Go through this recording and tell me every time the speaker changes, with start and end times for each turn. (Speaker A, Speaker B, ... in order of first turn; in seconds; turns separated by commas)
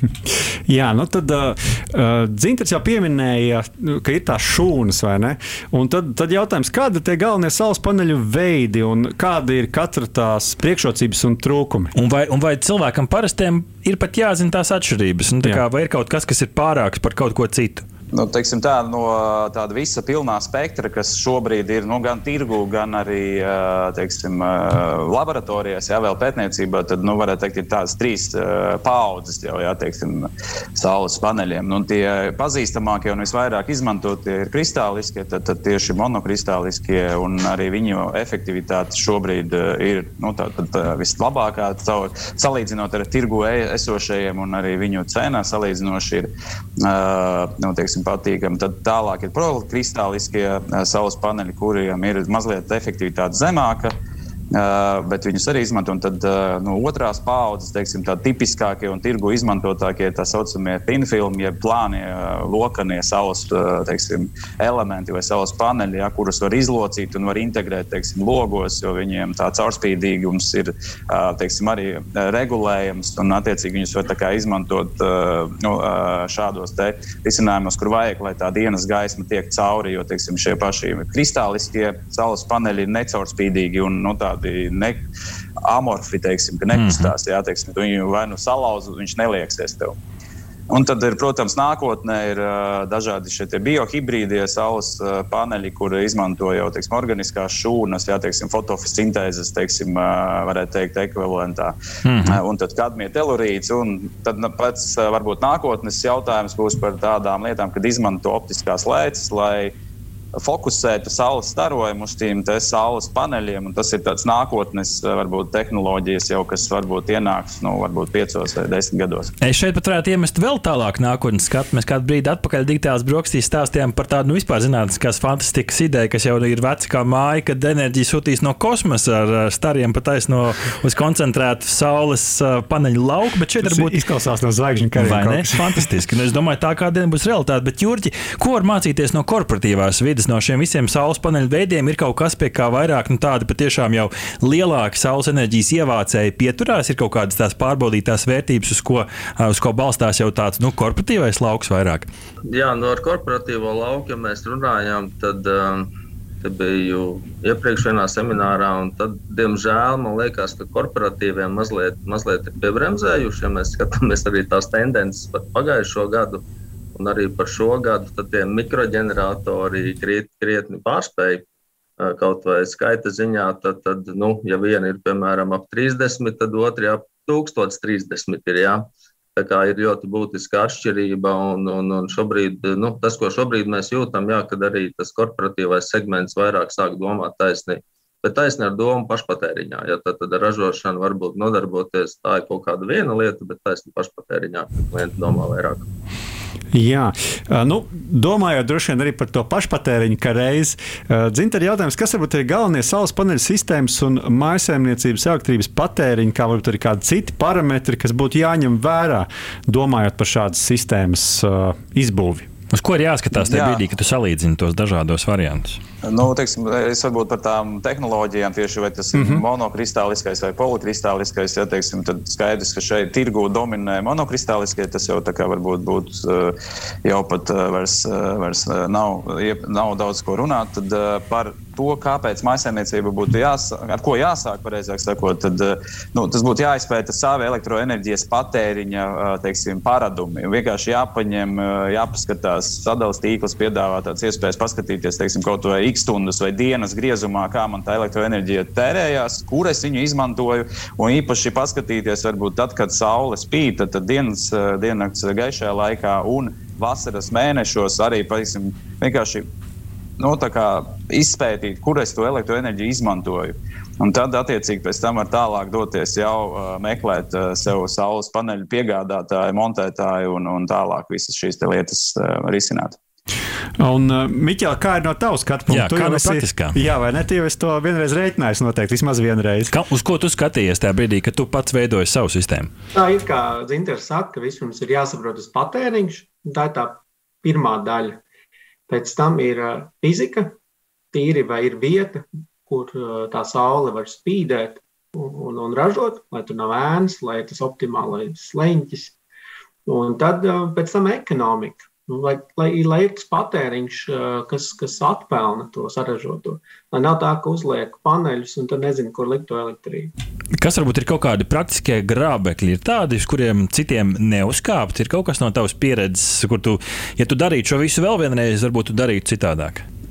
Speaker A: 0.7-11.9, Speaker B: 11.9-17.9, Speaker C: 18.1-46.3, Speaker C: 46.8-54.0, Speaker C: 54.5-85.0, Speaker C: 85.7-90.0, Speaker B: 86.7-87.1, Speaker C: 90.7-109.7, Speaker B: 102.0-102.4, Speaker C: 110.4-119.3, Speaker B: 119.4-134.0, Speaker A: 133.6-135.9, Speaker B: 135.0-152.1, Speaker D: 152.4-155.9, Speaker D: 156.4-166.4, Speaker D: 166.9-171.4, Speaker D: 172.0-178.8, Speaker D: 179.4-195.9, Speaker A: 196.7-212.5, Speaker B: 212.7-215.8, Speaker C: 213.3-213.8, Speaker C: 216.0-259.5, Speaker A: 219.1-219.4, Speaker C: 260.2-273.0, Speaker A: 273.8-279.7, Speaker B: 275.7-276.8, Speaker B: 279.7-282.7, Speaker E: 282.9-288.2, Speaker E: 288.9-290.5, Speaker E: 291.1-299.1, Speaker E: 299.9-310.1, Speaker B: 310.6-319.8